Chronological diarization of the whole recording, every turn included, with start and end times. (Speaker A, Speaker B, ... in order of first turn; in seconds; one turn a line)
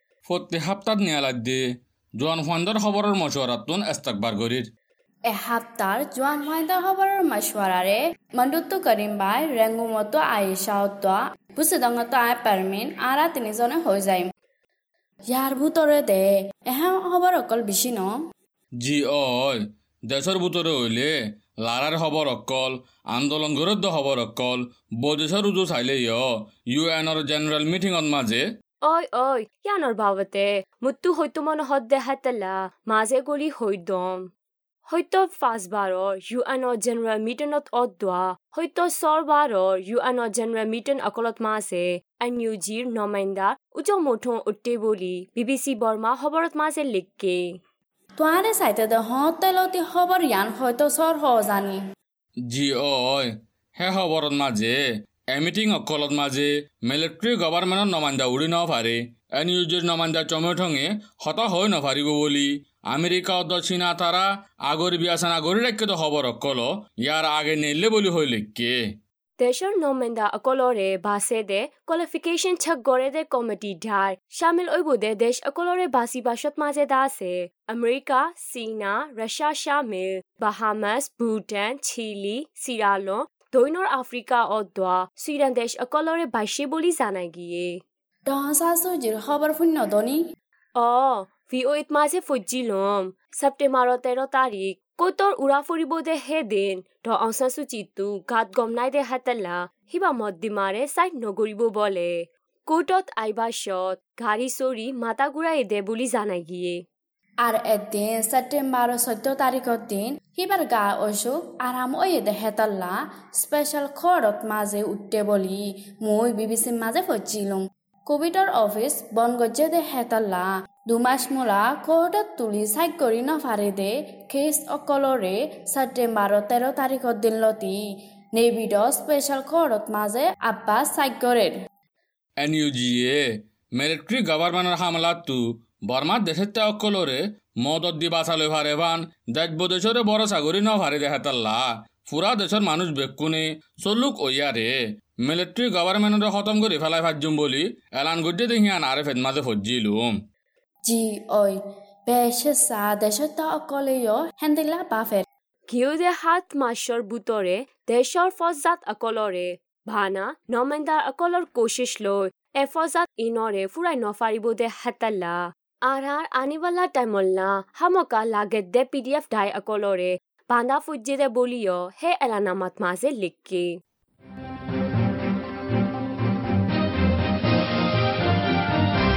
Speaker A: 0.3-1.6
Speaker A: 2.2-4.7
Speaker B: 5.3-14.3
Speaker B: 15.3-18.1
Speaker A: 18.8-28.4
Speaker C: 28.9-34.3
Speaker C: 34.9-47.6
Speaker B: 48.2-51.8
Speaker A: 52.5-54.8
Speaker A: 55.3-68.8
Speaker C: 69.4-87.8
Speaker B: 88.3-90.2
Speaker C: 90.8-106.8
Speaker B: 107.4-127.8
Speaker B: 128.3-131.5
Speaker A: 132.4-150.2
Speaker B: 150.8-155.2
Speaker C: 155.7-173.7